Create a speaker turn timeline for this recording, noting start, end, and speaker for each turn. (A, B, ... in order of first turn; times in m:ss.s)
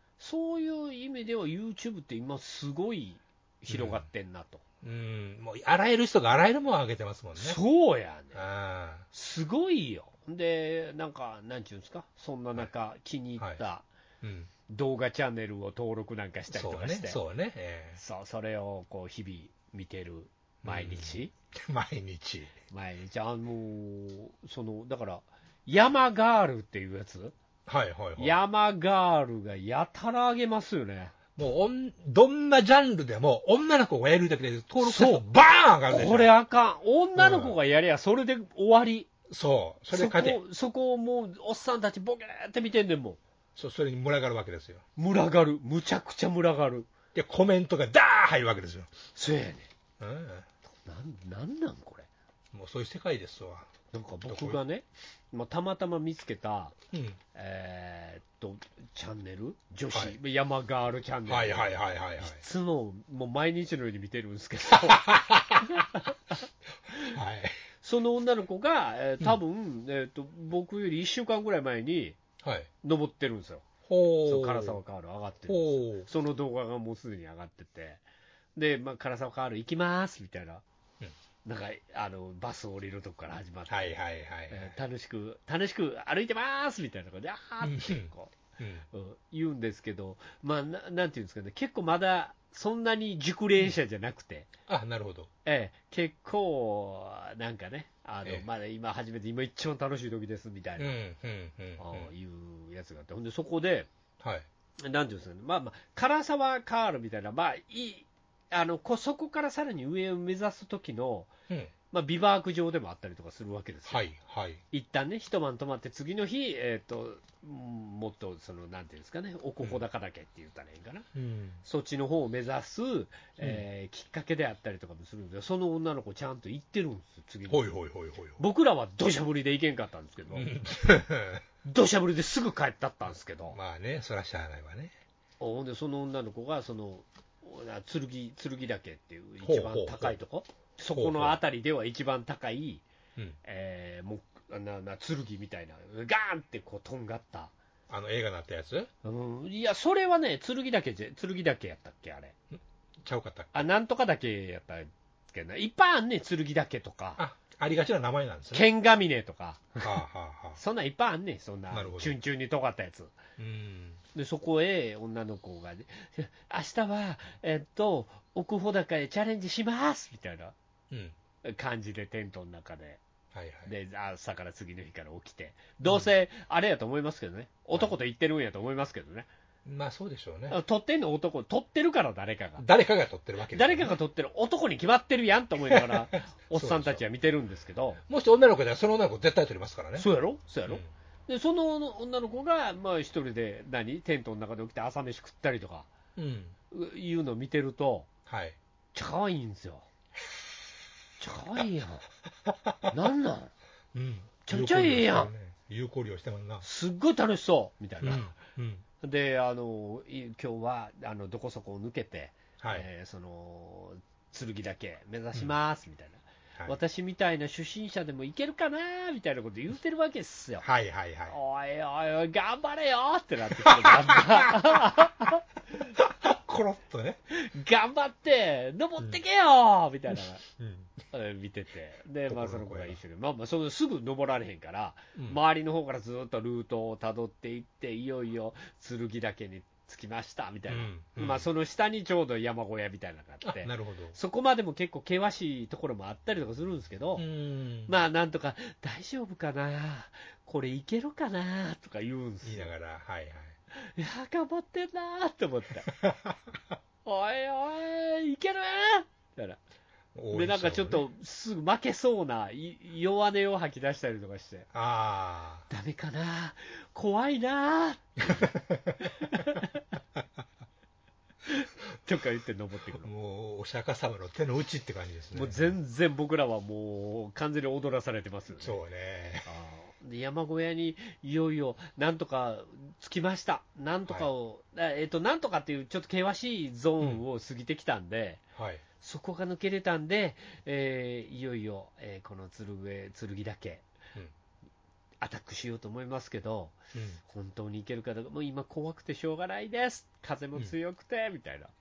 0:00.2-0:04.6 A
0:03.7-0:04.1 B
0:04.8-0:07.6 B
0:07.4-0:08.4 A
0:08.3-0:09.1 B
0:09.1-0:13.9 A
0:14.2-0:14.5 B
0:14.7-0:17.2 A
0:16.5-0:18.0 B
0:18.0-0:21.3 A
0:20.6-0:22.5 B
0:22.7-0:27.4 A
0:27.7-0:28.4 B
0:28.2-0:31.1 A
0:31.4-0:36.3 B
0:34.8-0:35.3 A
0:35.9-0:39.1 A
0:37.2-0:37.6 B
0:39.3-0:40.4 B
0:39.9-0:43.2 A
0:43.6-0:44.8 B
0:45.0-0:46.9 A
0:47.1-0:48.9 B
0:49.2-0:49.7 A
0:50.0-0:50.5 B
0:50.8-0:52.1 A
0:52.5-0:54.6 B
0:53.9-0:56.8 A
0:56.9-0:57.2 B
0:57.3-1:06.1 A
0:59.9-1:00.2 B
1:01.3-1:02.4 B
1:04.8-1:05.7 B
1:07.1-1:07.6 B
1:07.8-1:12.2 A
1:12.4-1:12.7 B
1:12.8-1:13.7 A
1:13.9-1:14.8 B
1:14.2-1:18.0 A
1:15.5-1:16.1 B
1:18.6-1:20.6 A
1:21.4-1:23.9 A
1:23.7-1:24.7 B
1:24.5-1:28.3 A
1:27.6-1:28.9 B
1:28.9-1:34.5 A
1:34.7-1:35.3 B
1:35.4-1:41.0 A
1:40.8-1:42.1 B
1:41.8-1:43.9 A
1:44.2-1:44.5 B
1:44.8-1:51.3 A
1:51.9-1:54.1 A
1:53.9-1:54.6 B
1:54.7-2:01.1 A
2:01.1-2:01.6 B
2:01.6-2:07.7 A
2:07.5-2:08.4 B
2:08.4-2:10.5 A
2:10.3-2:11.4 B
2:11.6-2:13.6 A
2:13.5-2:14.9 B
2:15.4-2:22.8 A
2:19.4-2:20.2 B
2:21.0-2:21.4 B
2:23.4-2:27.5 A
2:27.9-2:28.9 B
2:29.0-2:32.3 A
2:32.5-2:33.7 B
2:33.5-2:37.2 A
2:37.2-2:38.7 B
2:38.5-2:40.0 A
2:39.8-2:40.6 B
2:40.6-2:43.1 A
2:41.7-2:42.2 B
2:43.4-2:44.0 B
2:44.2-2:50.6 A
2:51.4-2:53.0 A
2:53.3-2:53.7 B
2:53.7-2:59.3 A
2:59.6-3:00.6 B
3:00.5-3:02.6 A
3:02.6-3:04.0 B
3:03.5-3:08.0 A
3:05.6-3:07.0 B
3:08.1-3:10.1 B
3:10.0-3:15.9 A
3:16.2-3:16.6 B
3:16.7-3:18.1 A
3:18.3-3:18.6 B
3:18.9-3:19.9 A
3:21.2-3:22.0 A
3:22.5-3:23.0 B
3:22.9-3:23.5 A
3:23.9-3:26.6 B
3:24.5-3:25.3 A
3:26.6-3:28.3 A
3:28.0-3:28.8 B
3:29.0-3:40.7 A
3:32.6-3:32.9 B
3:40.6-3:41.4 B
3:41.3-3:45.4 A
3:43.6-3:44.7 B
3:45.9-3:47.2 B
3:47.3-3:50.4 A
3:50.6-3:50.9 B
3:51.1-4:07.2 A
3:52.3-3:53.0 B
4:00.7-4:01.5 B
4:03.4-4:04.2 B
4:07.2-4:07.9 B
4:07.9-4:12.7 A
4:12.4-4:13.6 B
4:13.7-4:15.9 A
4:15.9-4:16.6 B
4:17.0-4:19.6 A
4:20.2-4:21.0 B
4:20.3-4:24.7 A
4:24.7-4:25.7 B
4:25.7-4:29.8 A
4:28.3-4:29.1 B
4:31.5-4:33.1 A
4:33.0-4:35.7 B
4:35.3-4:38.8 A
4:38.6-4:39.5 B
4:39.5-4:48.4 A
4:48.6-4:48.8 B
4:49.0-4:53.8 A
4:55.2-5:01.7 A
4:56.9-4:57.2 B